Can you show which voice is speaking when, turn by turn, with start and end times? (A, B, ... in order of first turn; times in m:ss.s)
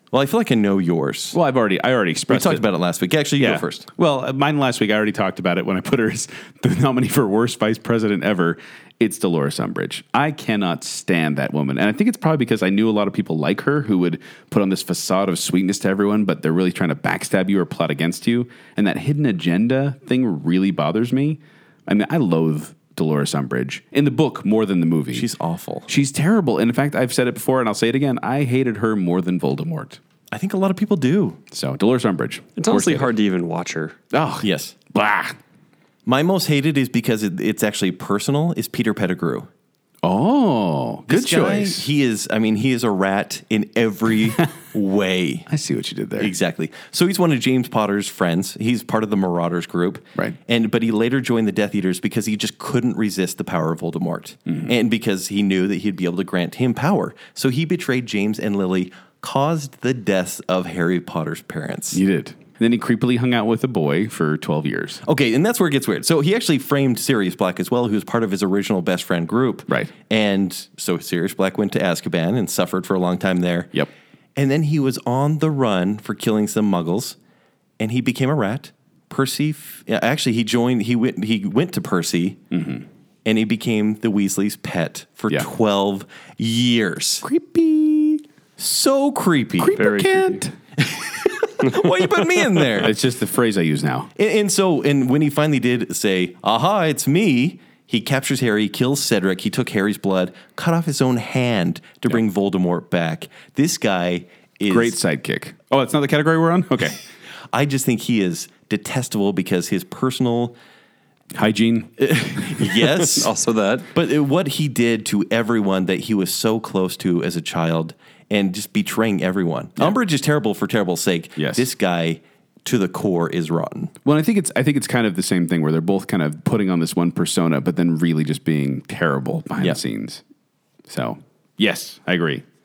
0:00.1-0:01.4 A
0:01.3-0:02.6 B
0:02.3-0:03.9 A
0:03.4-0:25.3 B
0:25.1-0:25.9 A
0:25.9-0:30.0 B
0:30.3-0:31.4 A
0:31.5-0:33.1 B
0:32.6-0:34.0 C
0:34.1-0:35.4 B
0:34.4-0:34.7 A
0:36.0-0:39.5 A
0:40.0-0:41.9 B
0:41.1-0:45.5 A
0:45.5-0:46.3 B
0:46.2-1:02.0 A
1:01.9-1:05.0 B
1:05.0-1:13.8 A
1:14.4-1:17.2 A
1:17.8-1:22.4 A
1:22.5-1:22.8 B
1:23.2-1:27.2 A
1:27.2-1:28.2 B
1:28.6-1:29.8 A
1:29.6-1:30.6 B
1:29.7-1:30.4 C
1:31.6-1:32.9 A
1:32.8-1:34.1 B
1:34.2-1:45.0 A
1:44.7-1:47.0 B
1:47.5-1:50.6 A
1:51.3-1:52.5 B
1:52.0-1:53.3 A
1:52.8-1:53.9 C
1:53.9-2:03.9 A
2:01.4-2:01.7 B
2:04.0-2:10.2 B
2:10.9-2:12.4 B